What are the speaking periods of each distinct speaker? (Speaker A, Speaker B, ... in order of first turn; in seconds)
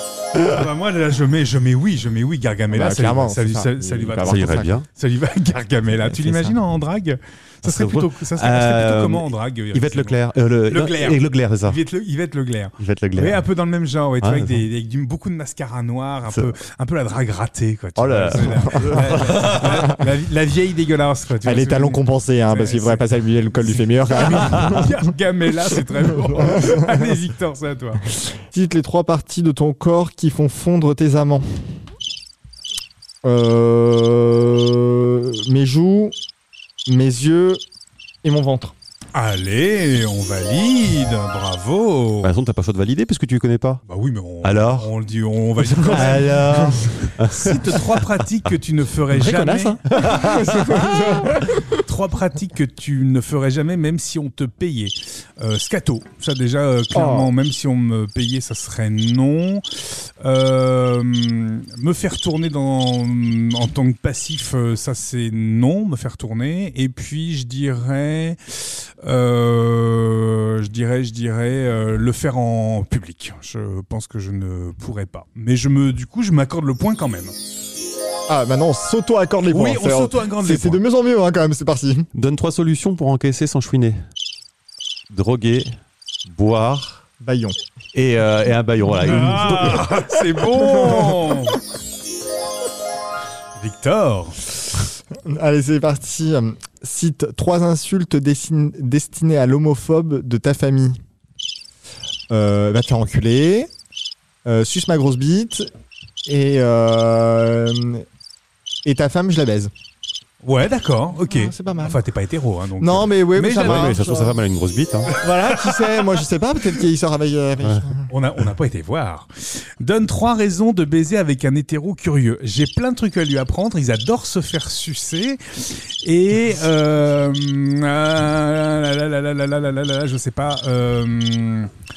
Speaker A: 0.4-23.0, 23.6-28.0, 39.1-42.3, 43.9-50.6, 51.5-77.3, 79.5-80.8, 89.0-91.6, 93.6-94.4, 110.4-114.0, 115.2-116.0, 118.1-131.7
Speaker B: 2.7-4.8, 21.4-25.1, 26.2-27.1, 28.2-31.8, 33.2-36.1, 36.9-37.6, 38.2-38.7, 45.8-46.8, 49.1-51.8, 56.9-57.3, 78.3-82.1, 87.2-87.6, 90.5-91.3, 95.1-101.0, 102.3-103.7, 104.4-105.7, 106.2-108.0, 108.8-109.7, 111.2-112.0, 112.8-114.4, 115.2-118.1
Speaker C: 4.2-4.8, 7.6-11.8, 12.8-13.4, 14.2-14.6, 18.0-19.9, 24.5-24.8, 42.2-43.8, 44.4-44.9, 45.8-48.1, 49.9-50.9, 82.1-84.0, 85.1-85.7, 86.2-87.0, 87.9-90.0, 113.5-115.1, 117.6-117.9